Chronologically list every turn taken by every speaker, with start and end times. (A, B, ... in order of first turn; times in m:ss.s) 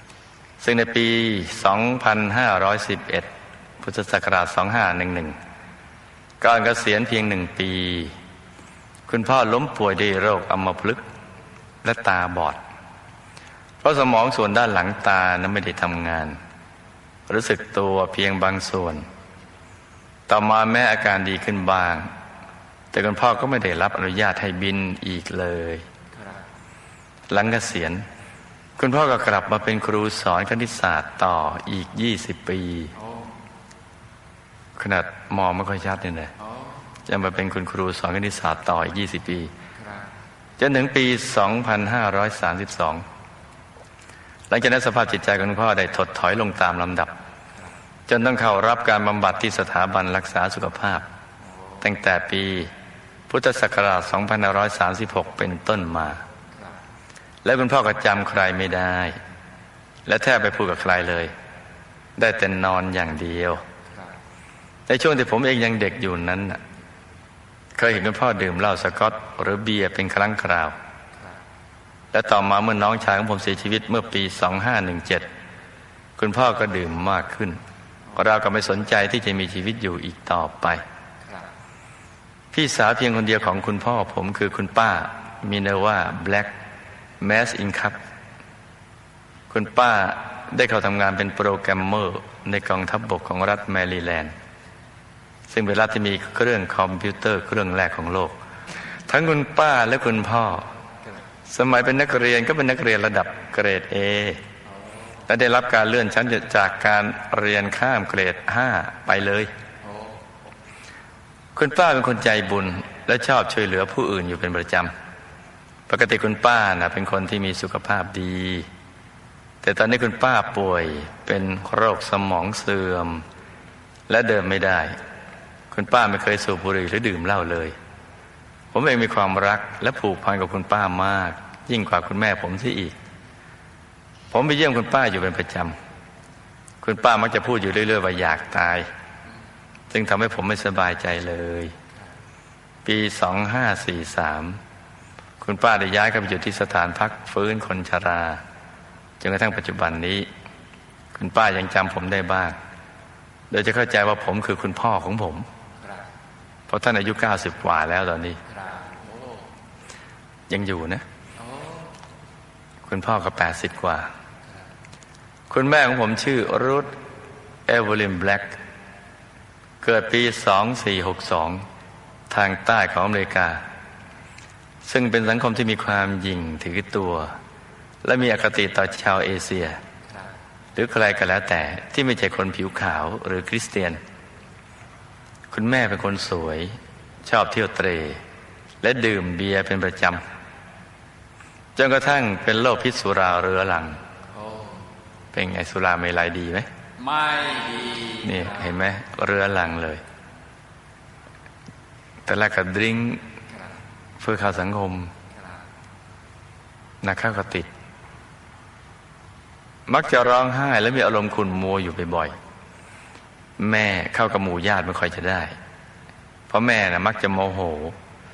0:00.6-0:05.4 A
0:06.4-0:08.2 A
0:09.1-0:11.0 A
0:11.8-0:12.6 A
0:13.8-0:16.4 A
0:17.3-0:19.1 A
0:20.3-0:22.1 A
0:22.9-0:25.9 A
0:26.2-0:26.4 B
0:27.3-0:28.0 A
0:28.8-0:33.0 A
0:33.0-0:33.3 B
0:34.8-0:36.3 A
0:36.4-0:36.8 B
0:37.1-0:39.5 A
0:40.6-0:43.1 A
0:44.5-0:47.1 A
0:48.1-0:51.1 A
0:51.8-0:52.7 A
0:53.3-0:56.2 A
0:57.4-0:59.2 A
1:00.1-1:01.3 A
1:02.2-1:03.6 A
1:04.9-1:06.6 A
1:07.8-1:10.8 A
1:12.1-1:15.3 A
1:16.2-1:17.6 A
1:18.1-1:20.8 A
1:22.5-1:26.5 A
1:27.2-1:28.0 A
1:29.5-1:34.4 A
1:35.5-1:38.4 A
1:39.1-1:40.7 A
1:41.5-1:44.4 A
1:45.3-1:49.5 A
1:49.8-1:50.2 B
1:51.6-1:54.9 A
1:55.9-1:58.7 A
1:59.6-2:03.2 A
2:04.1-2:05.0 A
2:05.7-2:07.8 A
2:08.7-2:13.0 A
2:14.3-2:15.8 A
2:16.8-2:18.9 A
2:19.9-2:21.8 A
2:22.8-2:24.6 A
2:25.4-2:28.4 A
2:29.2-2:30.3 A
2:31.1-2:32.6 A
2:33.5-2:35.5 A
2:36.7-2:38.4 A
2:38.5-2:39.4 B
2:40.5-2:41.0 A
2:41.4-2:41.8 B
2:42.9-2:44.1 A
2:45.5-2:47.0 A
2:47.7-2:48.6 A
2:49.8-2:51.6 A
2:52.3-2:53.6 A
2:54.8-2:57.4 A
2:58.0-2:59.8 A
3:00.8-3:04.0 A
3:05.5-3:08.2 A
3:08.8-3:10.3 A
3:11.8-3:14.0 A
3:14.3-3:14.8 B
3:15.3-3:16.7 A
3:17.0-3:18.7 B
3:18.2-3:20.0 A
3:22.3-3:23.2 A
3:24.2-3:25.1 A
3:27.0-3:27.7 A
3:29.9-3:32.4 A
3:33.6-3:35.6 A
3:36.5-3:38.0 A